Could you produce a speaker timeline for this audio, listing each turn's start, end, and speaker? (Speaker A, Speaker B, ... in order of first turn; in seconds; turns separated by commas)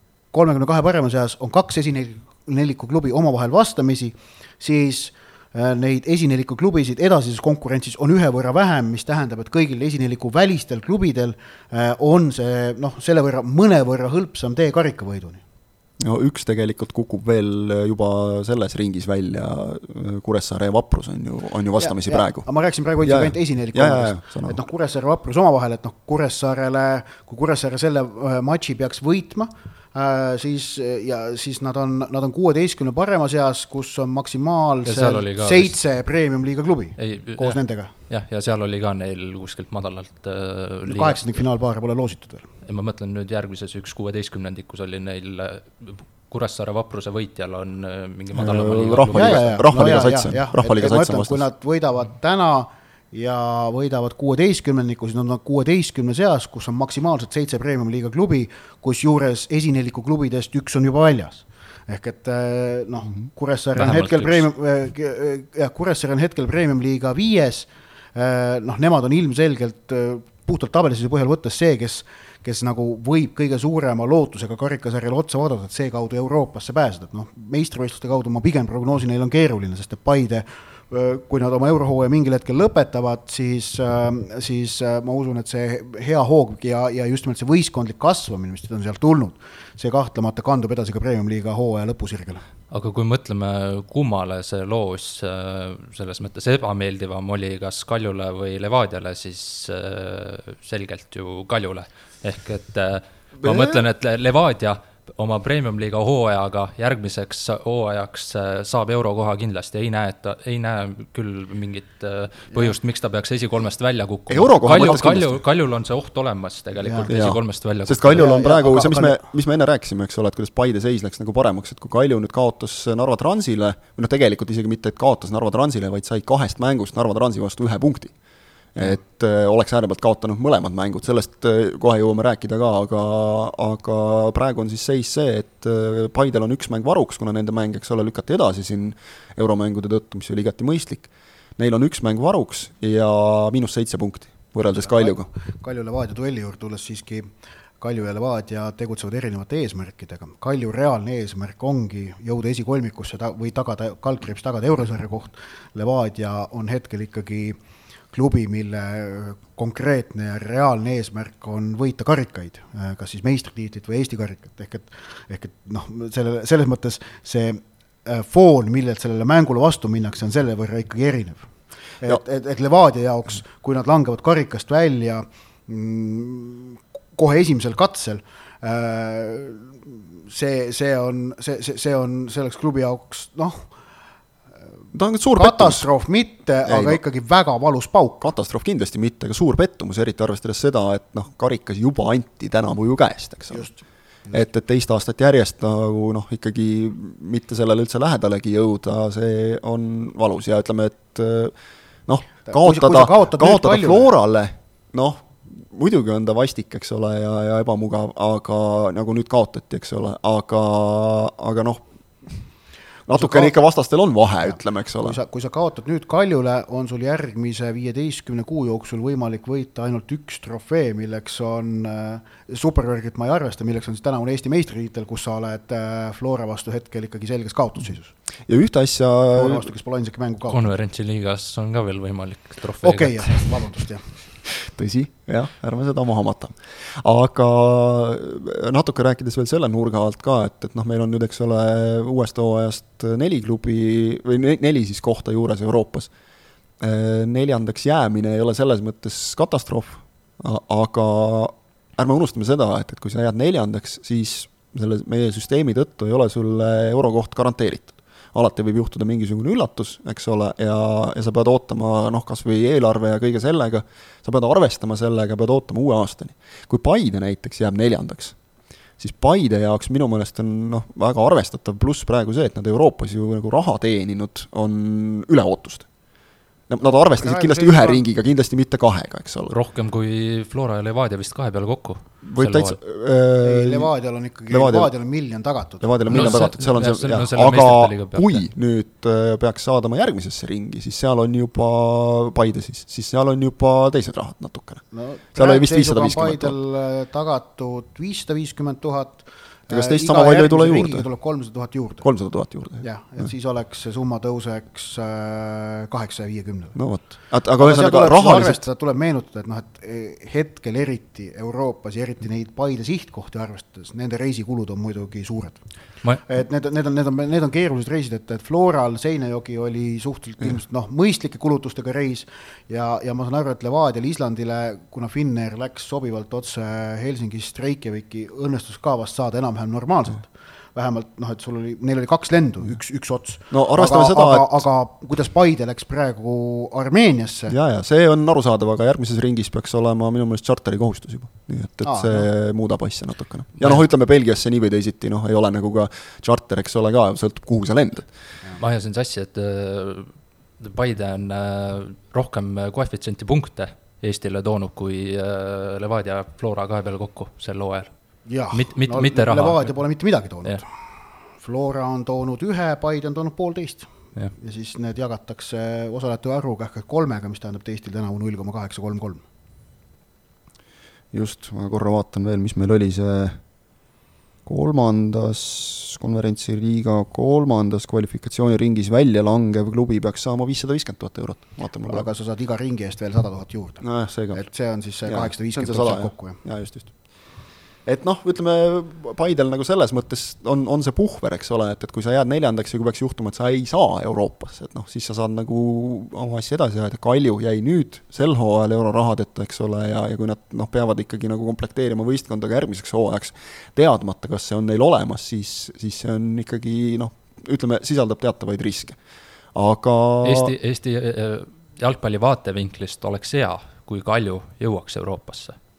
Speaker A: 0.3-15.4, Speaker B: 16.0-22.5, Speaker A: 21.8-37.9, Speaker B: 23.0-24.6, Speaker C: 34.8-35.8, Speaker C: 37.0-41.3, Speaker A: 40.9-42.5, Speaker C: 42.6-49.6, Speaker B: 48.3-51.5, Speaker A: 49.1-92.4, Speaker C: 63.8-64.5, Speaker C: 92.7-118.3, Speaker B: 103.4-103.8, Speaker B: 114.3-115.4, Speaker A: 116.8-117.1, Speaker B: 117.1-128.1, Speaker A: 118.1-119.2, Speaker B: 128.7-145.3, Speaker A: 144.7-157.6, Speaker A: 158.1-183.7, Speaker B: 184.9-185.9, Speaker A: 185.3-188.2, Speaker B: 186.6-187.0, Speaker B: 188.2-193.7, Speaker A: 193.5-194.4, Speaker B: 194.3-201.5, Speaker B: 202.1-212.4, Speaker A: 202.5-204.1, Speaker B: 213.1-215.2, Speaker A: 213.1-213.6, Speaker A: 214.5-228.1, Speaker B: 228.5-229.7, Speaker A: 229.3-230.7, Speaker C: 230.5-233.7, Speaker A: 232.8-234.1, Speaker B: 234.6-246.1, Speaker B: 246.8-268.4, Speaker B: 269.0-275.9, Speaker B: 276.7-279.5, Speaker A: 276.8-278.1, Speaker C: 279.5-282.8, Speaker B: 282.2-283.9, Speaker A: 283.4-286.5, Speaker B: 284.5-284.9, Speaker B: 285.8-296.5, Speaker C: 286.1-288.4, Speaker A: 294.9-302.0, Speaker B: 299.7-301.1, Speaker B: 302.0-302.8, Speaker A: 302.8-306.8, Speaker B: 306.7-308.6, Speaker A: 307.6-315.6, Speaker A: 316.2-337.5, Speaker B: 333.5-334.6, Speaker B: 337.5-348.1, Speaker A: 341.8-342.3, Speaker C: 348.6-357.9, Speaker A: 358.3-360.7, Speaker C: 358.5-359.7, Speaker A: 361.4-369.2, Speaker B: 371.1-373.4, Speaker B: 374.4-382.1, Speaker A: 381.8-386.4, Speaker B: 383.8-387.1, Speaker B: 387.8-409.0, Speaker B: 409.5-410.5, Speaker C: 410.2-415.6